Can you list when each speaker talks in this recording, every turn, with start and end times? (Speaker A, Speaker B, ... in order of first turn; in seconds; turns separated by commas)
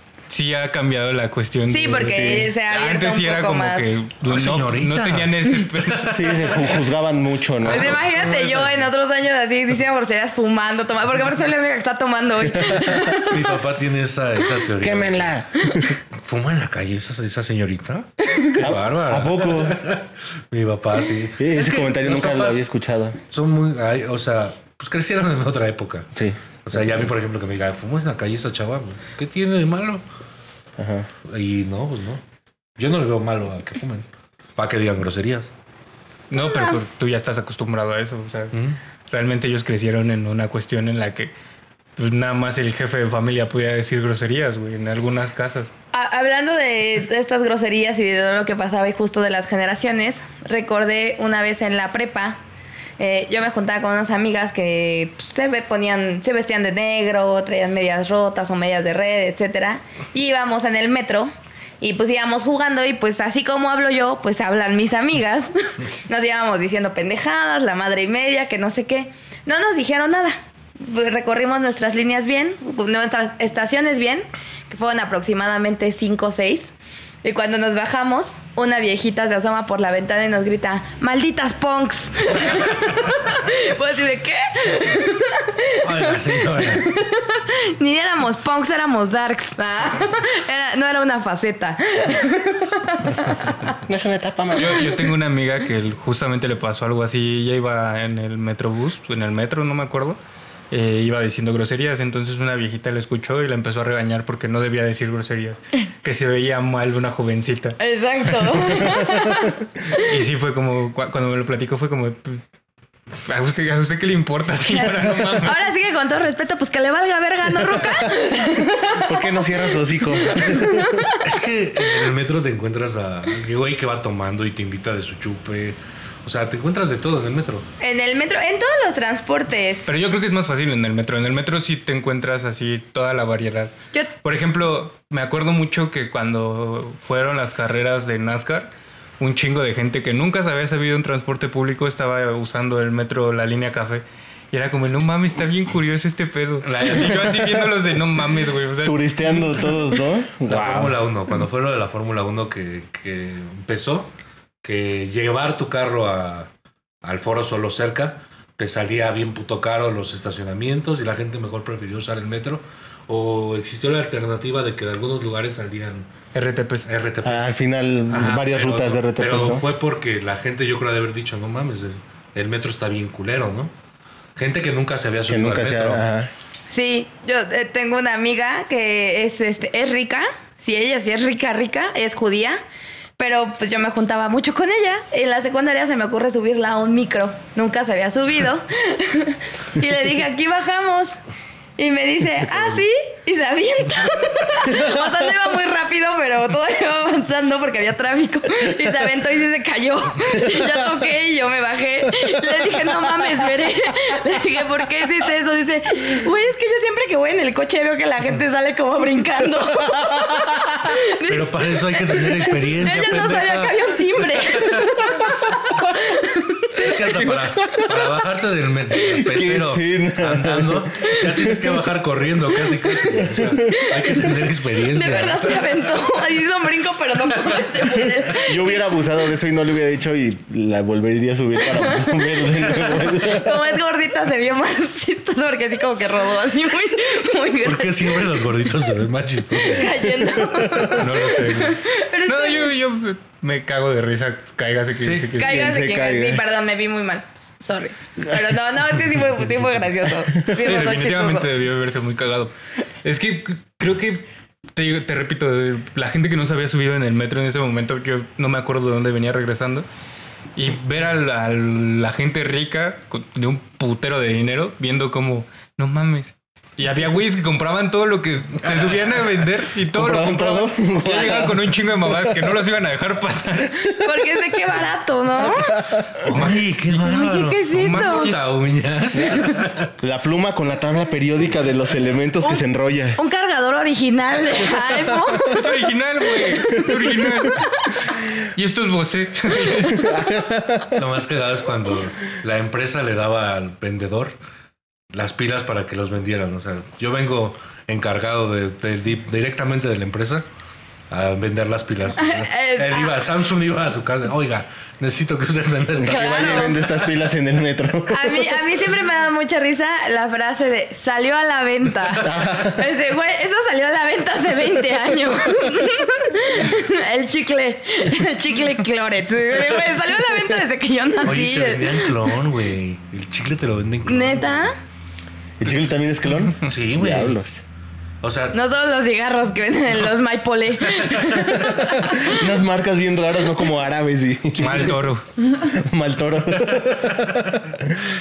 Speaker A: 0.3-6.1, Speaker B: 1.7-3.9, Speaker C: 2.0-2.5, Speaker D: 4.2-6.8, Speaker C: 6.1-8.0, Speaker D: 7.6-8.8, Speaker B: 7.6-13.6, Speaker C: 12.5-13.1, Speaker D: 13.2-15.3, Speaker C: 14.8-15.9, Speaker D: 16.2-22.7, Speaker C: 18.6-19.8, Speaker C: 21.4-23.2, Speaker D: 23.3-26.1, Speaker C: 26.1-27.1, Speaker D: 26.6-30.0, Speaker C: 30.8-31.1, Speaker D: 31.2-32.2, Speaker D: 32.8-35.5, Speaker A: 36.3-38.5, Speaker B: 36.3-36.8, Speaker D: 38.5-38.8, Speaker A: 39.1-41.3, Speaker A: 42.0-45.7, Speaker B: 45.9-52.4, Speaker B: 53.0-76.7, Speaker B: 77.2-93.5, Speaker D: 82.4-82.7, Speaker D: 85.8-86.9, Speaker C: 93.8-95.0, Speaker A: 94.5-100.2, Speaker A: 100.7-107.8, Speaker B: 107.8-110.0, Speaker A: 110.0-112.4, Speaker A: 113.2-115.6, Speaker B: 114.7-121.2, Speaker C: 117.8-118.1, Speaker C: 118.9-121.1, Speaker D: 121.2-127.7, Speaker B: 127.8-129.9, Speaker A: 129.8-149.1, Speaker D: 146.6-147.4, Speaker C: 148.8-151.0, Speaker D: 150.4-154.1, Speaker D: 154.6-156.5, Speaker D: 157.0-166.1, Speaker A: 166.3-166.9, Speaker D: 166.8-167.6, Speaker C: 167.2-169.7, Speaker D: 168.1-173.7, Speaker D: 174.3-176.0, Speaker C: 175.3-176.3, Speaker B: 176.7-182.6, Speaker B: 183.2-191.1, Speaker B: 191.8-216.9, Speaker C: 209.9-210.6, Speaker D: 211.2-215.1, Speaker D: 216.8-225.9, Speaker C: 217.1-218.0, Speaker C: 219.0-221.6, Speaker C: 223.1-223.8, Speaker B: 223.8-224.3, Speaker B: 224.9-228.8, Speaker D: 227.3-227.7, Speaker C: 228.3-233.6, Speaker B: 231.6-238.4, Speaker D: 237.6-240.0, Speaker B: 239.6-242.7, Speaker C: 240.4-240.8, Speaker A: 240.9-245.6, Speaker D: 245.0-245.3, Speaker C: 245.4-246.4, Speaker B: 245.4-251.5, Speaker A: 250.6-252.5, Speaker A: 253.0-259.9, Speaker A: 260.5-273.8, Speaker D: 268.6-269.4, Speaker C: 269.9-271.8, Speaker B: 274.0-275.8, Speaker D: 276.2-279.9, Speaker A: 276.3-276.7, Speaker B: 276.9-278.3, Speaker A: 277.7-278.3, Speaker C: 280.0-283.2, Speaker B: 283.1-285.7, Speaker A: 285.5-287.7, Speaker B: 286.4-286.9, Speaker A: 288.5-290.3, Speaker C: 289.9-290.9, Speaker D: 290.9-294.3, Speaker D: 295.1-300.5, Speaker D: 301.1-307.1, Speaker B: 302.2-303.2, Speaker C: 305.9-308.6, Speaker B: 306.0-306.8, Speaker B: 308.1-322.1, Speaker C: 312.2-312.8, Speaker D: 321.2-324.7, Speaker B: 324.1-324.7, Speaker C: 325.6-327.6, Speaker D: 326.6-327.4, Speaker D: 328.2-328.6, Speaker B: 328.5-332.5, Speaker D: 330.8-331.8, Speaker C: 332.0-335.0, Speaker A: 334.6-335.2, Speaker D: 334.6-334.9, Speaker C: 335.6-338.0, Speaker D: 336.5-337.7